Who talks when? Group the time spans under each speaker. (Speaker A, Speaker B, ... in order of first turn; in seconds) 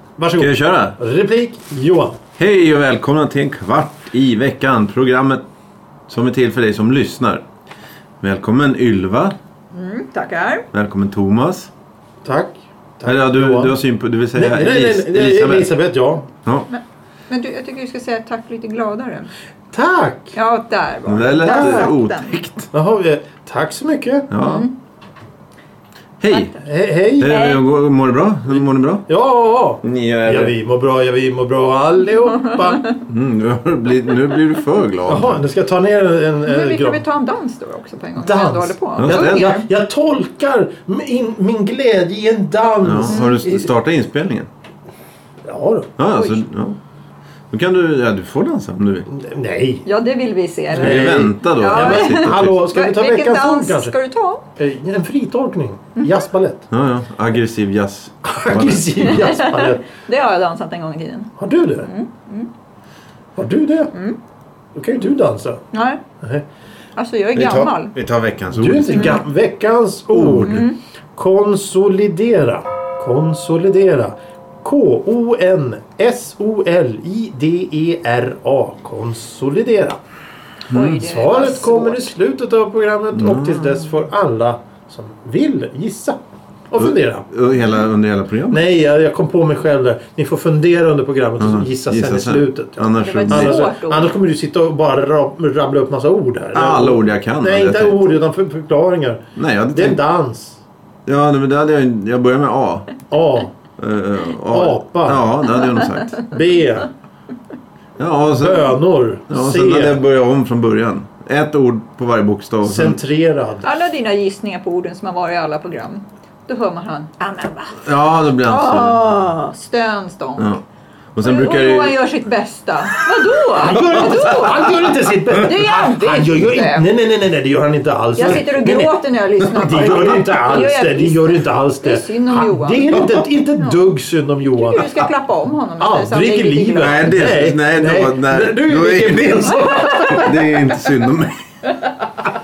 Speaker A: 0.2-2.2, 12.2-13.8, 14.3-16.3, 19.7-20.4, 21.4-21.9, 22.7-24.3, 26.6-27.4, 29.1-32.9, 35.0-37.0, 38.2-43.6, 45.5-45.9, 49.1-49.8, 50.7-53.9, 54.6-56.7, 58.2-59.9, 61.4-61.9, 63.4-63.9, 64.7-65.6, 68.5-80.0, 80.9-86.2, 86.7-87.3, 88.5-99.2, 99.7-100.6, 103.1-103.5, 104.5-105.2, 106.3-106.9, 108.3-110.0, 112.6-113.7, 123.5-135.1, 135.8-140.3
Speaker B: 0.4-0.9, 2.4-5.4, 6.1-7.4, 8.2-9.3, 10.7-11.7, 13.1-15.7, 21.1-22.7, 24.3-24.7, 26.2-26.5, 27.2-29.1, 29.8-30.5, 33.1-35.4, 39.0-39.5, 42.8-44.5, 46.0-46.8, 47.5-49.1, 50.8-52.6, 56.7-59.3, 67.3-69.2, 70.1-70.7, 80.7-81.0, 83.1-83.9, 86.8-88.6, 91.4-93.6, 96.5-98.2, 99.3-100.0, 101.0-102.9, 103.8-106.2, 108.0-108.8, 109.3-113.0, 117.8-119.0, 120.4-120.6, 121.1-122.0, 123.7-124.5, 136.8-141.4
Speaker C: 9.7-10.7, 16.7-19.3, 20.4-22.4, 24.4-24.7, 26.3-26.6, 27.2-27.6, 32.3-33.0, 36.4-39.6, 43.1-43.4, 46.1-46.4, 49.8-54.4, 59.1-62.5, 65.7-66.0, 67.0-67.9, 68.9-69.2, 70.4-70.8, 80.7-82.1, 93.0-94.2, 113.6-120.5, 121.2-126.9, 128.2-133.0, 133.6-133.8, 134.6-137.2, 139.9-140.2